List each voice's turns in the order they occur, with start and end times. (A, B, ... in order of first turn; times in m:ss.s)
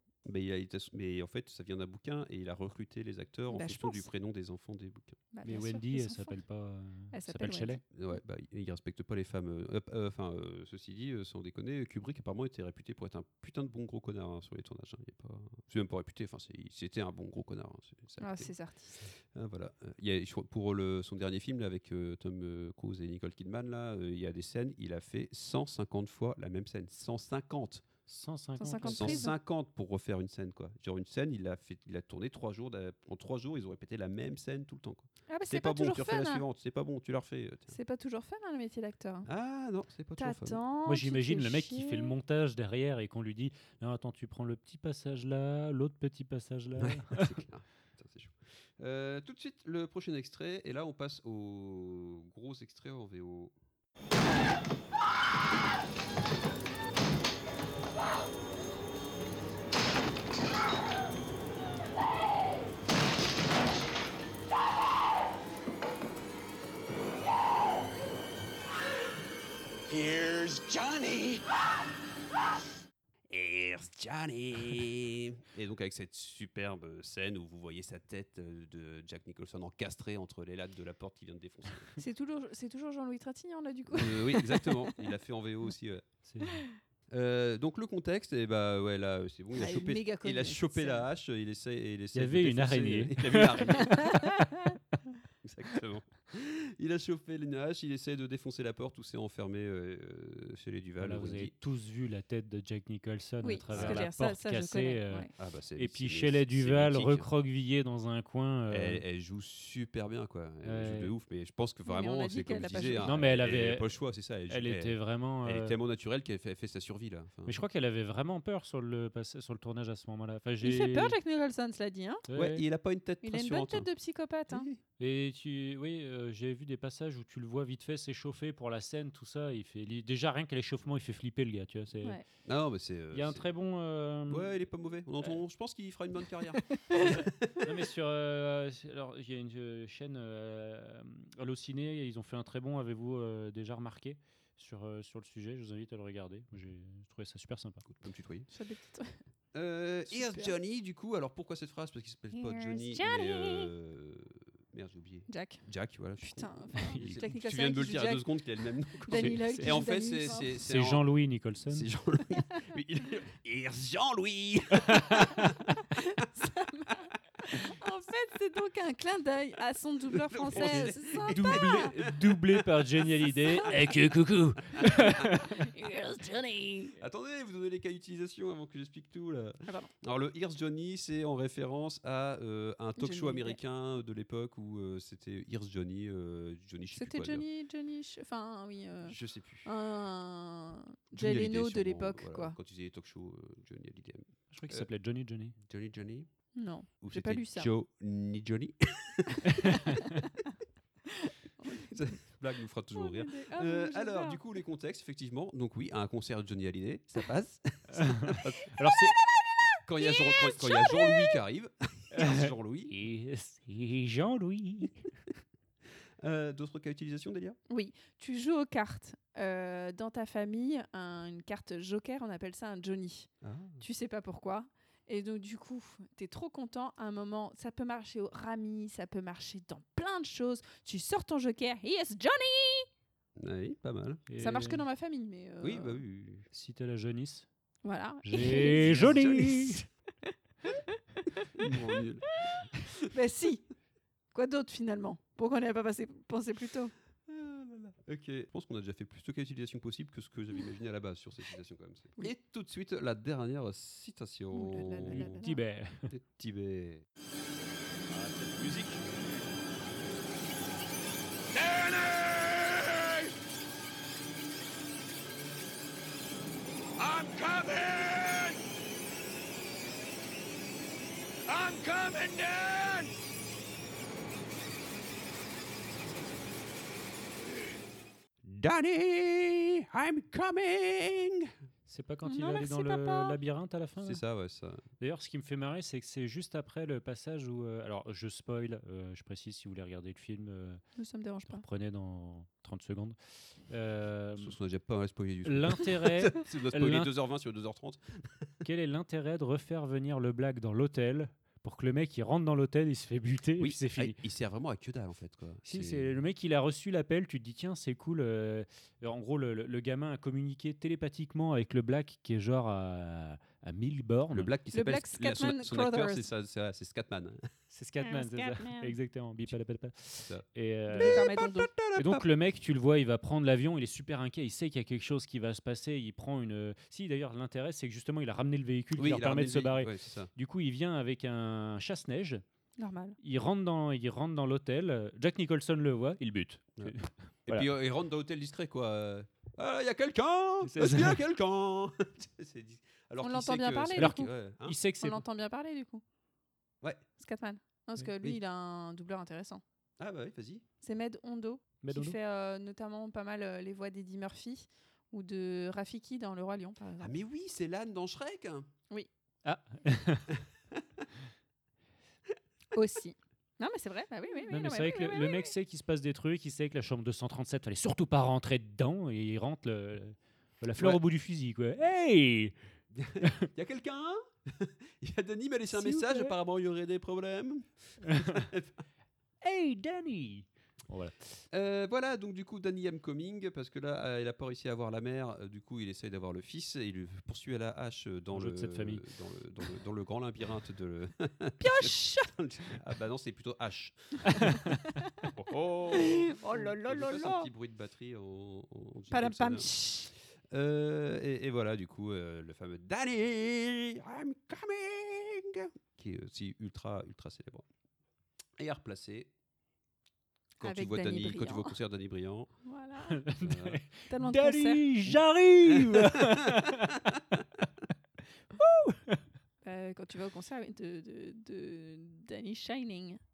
0:00.2-0:05.2 A
0:03.5-0:04.1 B
0:05.3-0:06.4 B
0:05.4-0:07.8 C
0:07.1-0:07.8 B
0:07.9-0:27.9 A
0:18.2-0:19.0 B
0:28.1-0:29.3 C
0:28.6-0:29.4 B
0:28.8-0:37.8 A
0:35.3-0:36.4 B
0:37.7-0:39.3 B
0:39.3-0:40.6 A
0:40.2-0:42.1 B
0:40.9-0:47.3 C
0:46.8-0:53.5 A
1:09.9-1:11.4 A
1:13.3-1:21.9 A
1:22.0-1:25.0 B
1:23.9-1:26.1 A
1:26.3-1:26.6 C
1:27.1-1:34.2 A
1:29.5-1:31.1 B
1:32.1-1:34.4 C
1:33.9-1:34.2 B
1:35.4-1:41.5 A
1:41.0-1:49.0 C
1:43.4-1:45.3 B
1:43.7-1:44.1 A
1:45.4-1:47.3 A
1:48.7-1:57.6 A
1:50.6-1:51.1 C
1:51.9-1:53.1 B
1:53.0-1:53.9 C
1:54.5-1:55.8 C
1:57.5-2:01.1 C
2:00.6-2:02.2 B
2:02.3-2:02.6 C
2:02.3-2:03.9 A
2:03.2-2:04.7 B
2:04.5-2:04.8 A
2:05.0-2:12.2 C
2:12.4-2:13.5 A
2:13.1-2:14.5 C
2:14.3-2:17.7 A
2:16.7-2:17.1 B
2:17.6-2:27.8 C
2:27.9-2:28.5 A
2:28.5-2:29.2 B
2:29.5-2:45.5 A
2:30.1-2:30.6 B
2:32.4-2:33.7 B
2:35.3-2:35.6 B
2:36.2-2:38.5 B
2:36.8-2:37.2 C
2:39.0-2:40.5 B
2:39.1-2:41.9 C
2:44.8-2:45.5 C
2:46.0-2:51.9 B
2:50.1-2:52.7 A
2:50.5-2:55.7 C
2:54.9-2:56.9 B
2:57.0-3:07.4 A
2:59.6-2:59.9 B
3:03.0-3:03.6 B
3:06.9-3:12.6 B
3:09.1-3:09.7 A
3:11.1-3:14.9 A
3:14.5-3:15.6 C
3:15.6-3:16.3 A
3:16.6-3:17.7 B
3:17.0-3:19.8 A
3:19.4-3:19.7 B
3:19.6-3:20.1 C
3:21.3-3:21.9 B
3:21.6-3:28.7 A
3:23.0-3:24.4 B
3:27.9-3:29.2 C
3:29.9-3:32.9 A
3:30.0-3:31.4 B
3:32.1-3:35.1 C
3:36.2-3:37.6 A
3:37.7-3:52.9 B
3:43.4-3:43.8 A
3:53.4-3:54.2 A
3:54.3-3:54.8 C
3:54.4-3:56.0 B
3:55.6-3:56.5 A
3:56.5-3:57.5 C
3:57.8-3:59.2 B
3:58.2-3:59.8 C
3:58.7-3:59.8 A
4:01.6-4:02.4 A
4:03.0-4:03.7 B
4:04.3-4:06.9 B
4:07.3-4:15.4 A
4:14.5-4:15.6 B
4:15.0-4:16.1 C
4:16.1-4:17.1 A
4:18.1-4:19.0 A
4:21.6-4:23.3 A
4:27.0-4:28.6 A
4:31.5-4:33.1 A
4:38.4-4:41.5 A
4:41.9-4:44.2 C
4:42.2-4:43.4 B
4:44.0-4:44.8 A
4:45.0-4:50.8 C
4:51.0-4:51.6 B
4:51.5-4:53.2 C
4:53.7-4:54.5 C
4:54.4-4:58.5 A
4:55.4-4:57.1 C
4:58.6-5:04.2 C
5:03.6-5:06.2 A
5:05.6-5:14.5 C
5:14.3-5:17.5 A
5:14.7-5:16.3 B
5:17.7-5:21.2 C
5:18.0-5:19.0 B
5:20.2-5:22.3 A
5:20.9-5:21.7 B
5:22.0-5:32.4 C
5:29.0-5:30.3 A
5:32.8-5:33.2 B
5:33.2-5:37.7 C
5:37.5-5:44.8 A
5:40.6-5:41.2 C
5:43.2-5:44.3 B
5:44.0-5:45.2 C
5:45.0-5:46.0 B
5:47.2-5:49.6 B
5:50.0-5:50.6 A
5:50.8-5:57.1 B
5:51.8-5:52.2 C
5:57.0-5:58.7 A
5:59.4-6:00.3 C
6:02.7-6:05.5 B
6:04.5-6:12.6 C
6:12.9-6:18.8 A
6:15.7-6:16.4 C
6:18.0-6:18.5 C
6:19.4-6:21.4 C
6:21.5-6:34.6 A
6:28.3-6:29.0 C
6:31.6-6:32.3 B
6:34.3-6:34.8 C
6:35.3-6:39.8 A
6:35.9-6:37.5 B
6:39.1-6:40.1 B
6:40.5-6:47.7 A
6:48.6-6:49.3 A
6:50.6-6:52.5 A
6:50.6-6:51.8 B
6:52.6-6:53.3 B
6:53.1-6:57.0 C
6:53.4-6:53.8 A
6:54.1-6:54.9 B
6:55.6-6:57.2 A
6:58.6-6:59.2 C
6:59.6-7:03.2 B